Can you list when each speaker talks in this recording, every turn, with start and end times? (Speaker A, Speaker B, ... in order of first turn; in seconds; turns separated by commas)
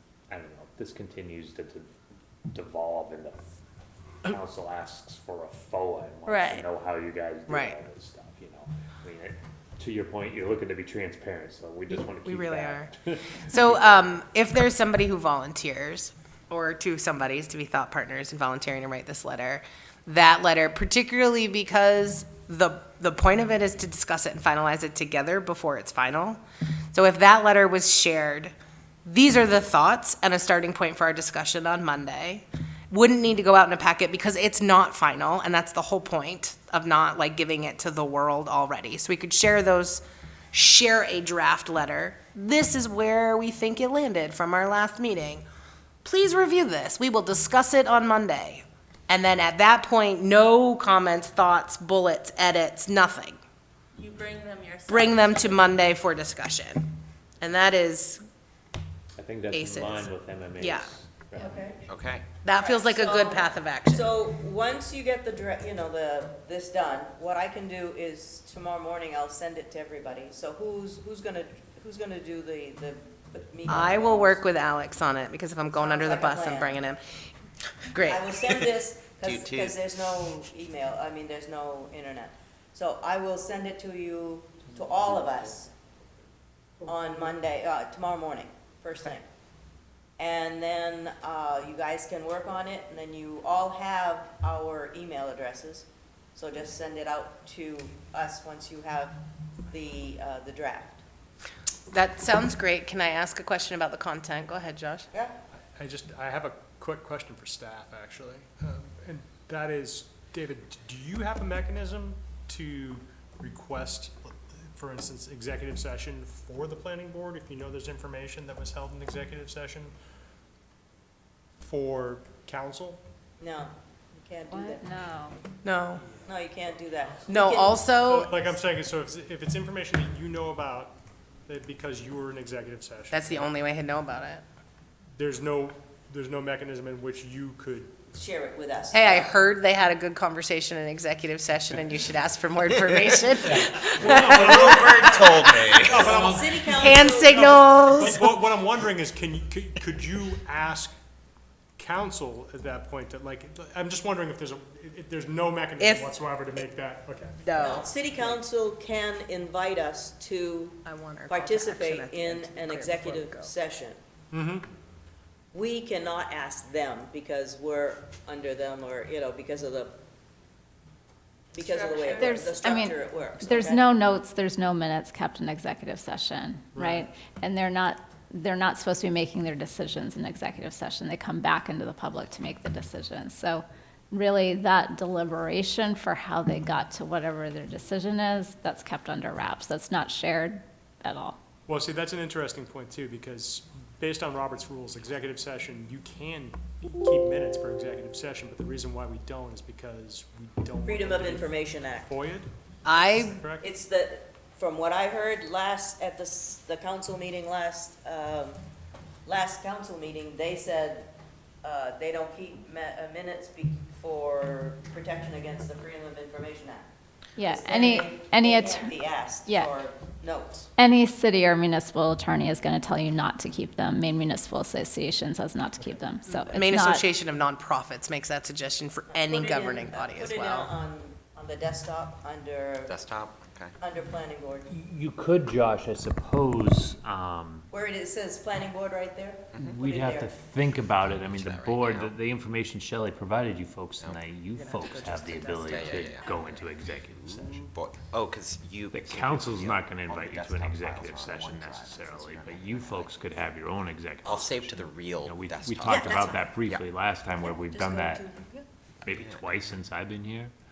Speaker A: 0.3-1.9, Speaker A: 2.5-3.4, Speaker A: 4.2-14.2, Speaker B: 6.3-6.6, Speaker C: 7.5-7.8, Speaker C: 11.9-12.9, Speaker C: 13.5-26.4, Speaker C: 26.9-28.5, Speaker C: 29.1-45.4, Speaker C: 46.0-53.4, Speaker B: 54.0-55.7, Speaker C: 54.9-56.9, Speaker C: 57.4-58.2, Speaker A: 59.2-61.8, Speaker C: 59.5-60.9, Speaker D: 61.4-61.8, Speaker E: 61.9-62.3, Speaker C: 62.4-64.2, Speaker B: 62.6-63.1, Speaker D: 63.1-74.4, Speaker C: 73.7-77.2, Speaker D: 75.8-76.8, Speaker C: 77.9-78.4, Speaker D: 78.0-85.7, Speaker E: 79.2-80.4, Speaker A: 84.7-85.5, Speaker D: 86.8-89.2, Speaker D: 90.2-99.2, Speaker D: 99.7-101.0, Speaker C: 101.9-105.1, Speaker D: 105.1-105.4, Speaker F: 105.8-119.9, Speaker F: 121.6-123.0, Speaker D: 123.4-124.9, Speaker G: 124.5-125.4, Speaker C: 125.6-126.1, Speaker D: 126.2-127.8, Speaker C: 127.3-128.4, Speaker F: 127.9-133.6, Speaker C: 133.1-134.4, Speaker F: 135.2-138.1, Speaker D: 138.1-139.4, Speaker C: 138.9-144.7, Speaker F: 143.6-151.0, Speaker A: 144.1-144.8, Speaker E: 144.1-146.2, Speaker C: 145.4-145.7, Speaker D: 145.9-147.6, Speaker C: 146.7-148.3, Speaker F: 151.8-157.5, Speaker C: 155.8-156.2, Speaker C: 157.4-158.0, Speaker D: 157.6-164.0, Speaker C: 160.8-163.5, Speaker F: 164.3-164.7, Speaker D: 165.5-170.0, Speaker D: 171.5-174.0, Speaker B: 171.6-172.5, Speaker G: 172.1-191.4, Speaker F: 176.7-177.1, Speaker F: 191.7-203.7, Speaker D: 200.8-202.1, Speaker C: 202.9-203.5, Speaker D: 203.6-208.6, Speaker D: 209.3-211.1, Speaker D: 211.6-216.9, Speaker G: 217.4-219.7, Speaker D: 217.4-220.7, Speaker G: 220.8-227.1, Speaker C: 226.5-230.7, Speaker D: 229.1-232.9, Speaker E: 232.9-233.8, Speaker D: 233.8-234.7, Speaker A: 234.7-237.7, Speaker D: 237.7-240.3, Speaker E: 239.5-239.8, Speaker A: 239.6-247.7, Speaker E: 241.0-242.2, Speaker C: 244.6-245.6, Speaker E: 245.0-253.2, Speaker A: 248.9-258.3, Speaker E: 254.2-256.8, Speaker D: 255.9-256.3, Speaker D: 258.0-258.6, Speaker A: 259.1-260.5, Speaker E: 259.1-259.5